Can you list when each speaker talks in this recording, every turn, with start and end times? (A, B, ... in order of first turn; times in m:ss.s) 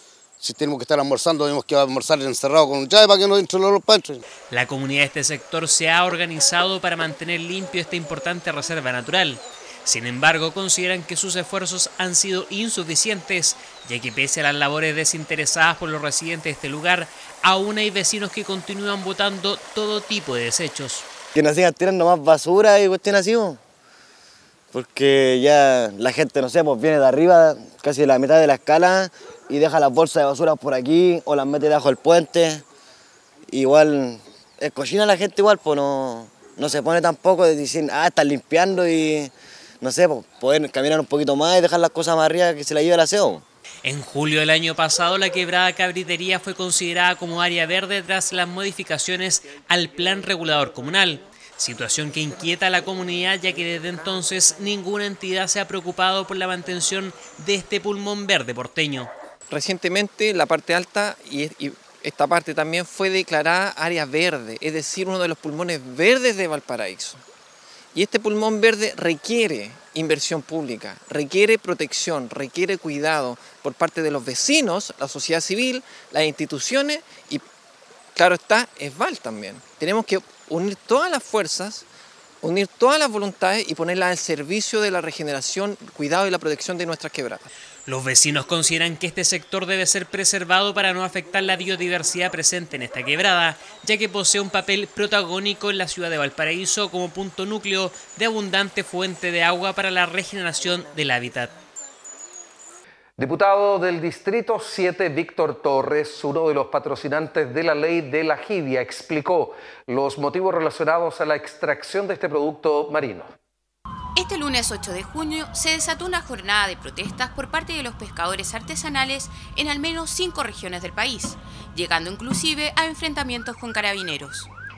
0:00.4-0:04.2 A
0:04.5-0:21.1 B
0:21.3-0:23.6 C
0:24.7-0:32.6 C
0:33.5-0:43.4 C
0:43.8-0:59.1 B
0:59.5-1:07.2 D
1:07.9-1:17.4 D
1:18.2-1:21.9 D
1:22.4-1:27.5 D
1:27.9-1:41.5 B
1:43.2-1:53.3 E
1:54.2-2:04.5 F